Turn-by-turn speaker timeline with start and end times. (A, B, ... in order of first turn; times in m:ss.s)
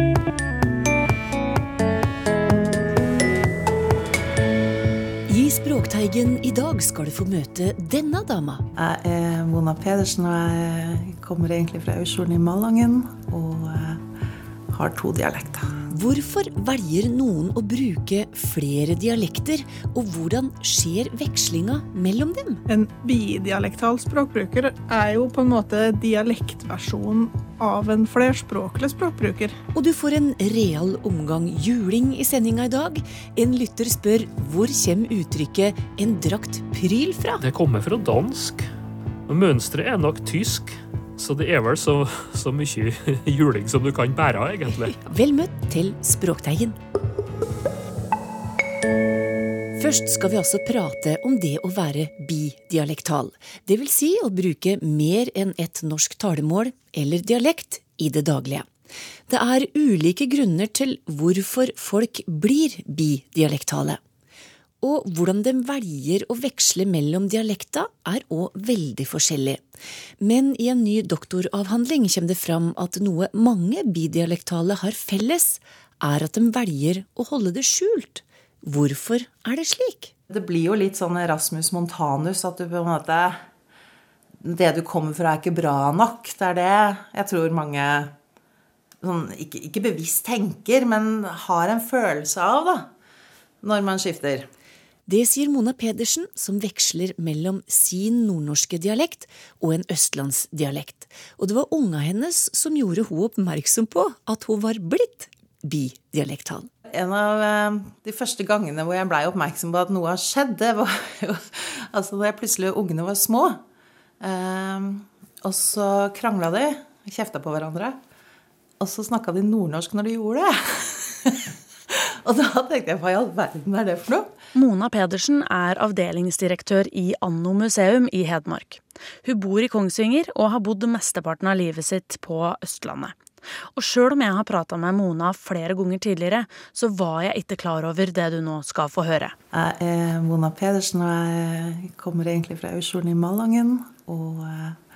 0:05.3-0:08.7 A
0:08.8-0:14.0 B
0:14.7-0:15.8 B
0:15.9-0:22.6 A
0:22.7-0:29.6 C
0:29.8-0:37.4 A
0:37.4-0:38.7 D
0:39.3-0:45.0 D
0:44.7-0:46.8 A
0:49.8-0:58.7 A
0:59.3-1:04.0 A
1:04.8-1:09.6 A
1:10.2-1:20.1 A
1:20.3-1:23.4 B
1:24.4-1:28.1 B
1:29.0-1:32.9 B
1:33.6-1:34.5 B
1:35.1-1:46.7 A
1:46.9-1:53.6 B
1:54.2-1:58.0 B
1:58.8-2:04.4 B
2:04.6-2:13.2 E
2:13.8-2:19.4 E
2:19.5-2:24.8 B